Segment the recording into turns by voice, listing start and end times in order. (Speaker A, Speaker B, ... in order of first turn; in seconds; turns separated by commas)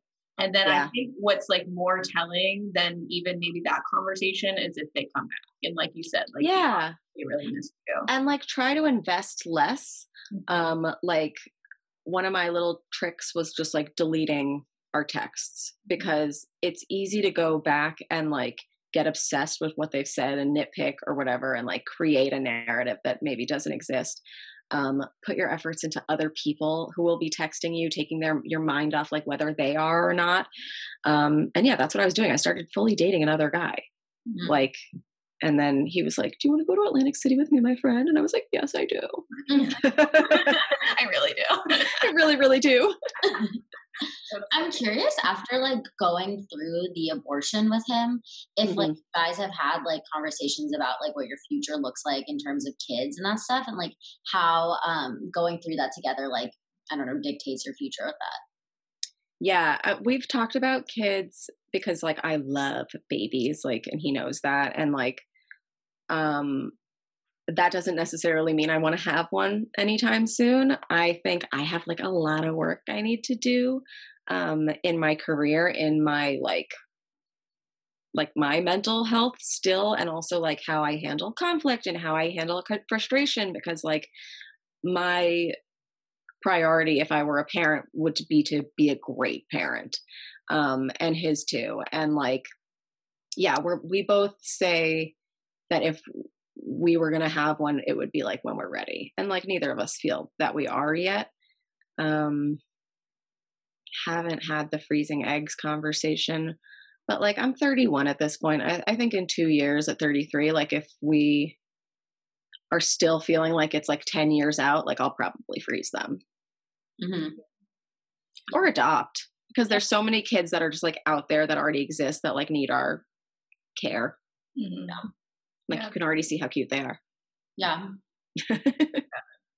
Speaker A: 0.4-8.1, Speaker B: 0.7-0.9, Speaker B: 6.4-7.0, Speaker B: 8.1-11.5, Speaker B: 12.1-30.5, Speaker B: 31.1-33.8, Speaker B: 34.5-34.8, Speaker B: 35.4-39.2, Speaker C: 39.5-39.8, Speaker B: 39.8-40.6, Speaker A: 40.0-42.1, Speaker B: 41.9-43.0, Speaker A: 44.3-44.8, Speaker C: 44.5-58.4, Speaker B: 48.7-49.0, Speaker B: 59.4-65.2, Speaker B: 66.1-66.7, Speaker B: 67.5-76.7, Speaker B: 78.1-84.1, Speaker B: 84.8-85.5, Speaker B: 86.4-92.5, Speaker B: 93.4-95.1, Speaker B: 95.7-96.0, Speaker B: 96.6-101.3, Speaker B: 102.0-102.6, Speaker B: 104.0-106.6, Speaker B: 107.1-111.6, Speaker B: 112.7-116.2, Speaker C: 117.0-117.4, Speaker B: 118.5-123.0, Speaker B: 123.8-124.2, Speaker A: 124.6-125.0, Speaker B: 125.7-127.0, Speaker C: 127.6-127.9, Speaker B: 128.4-129.1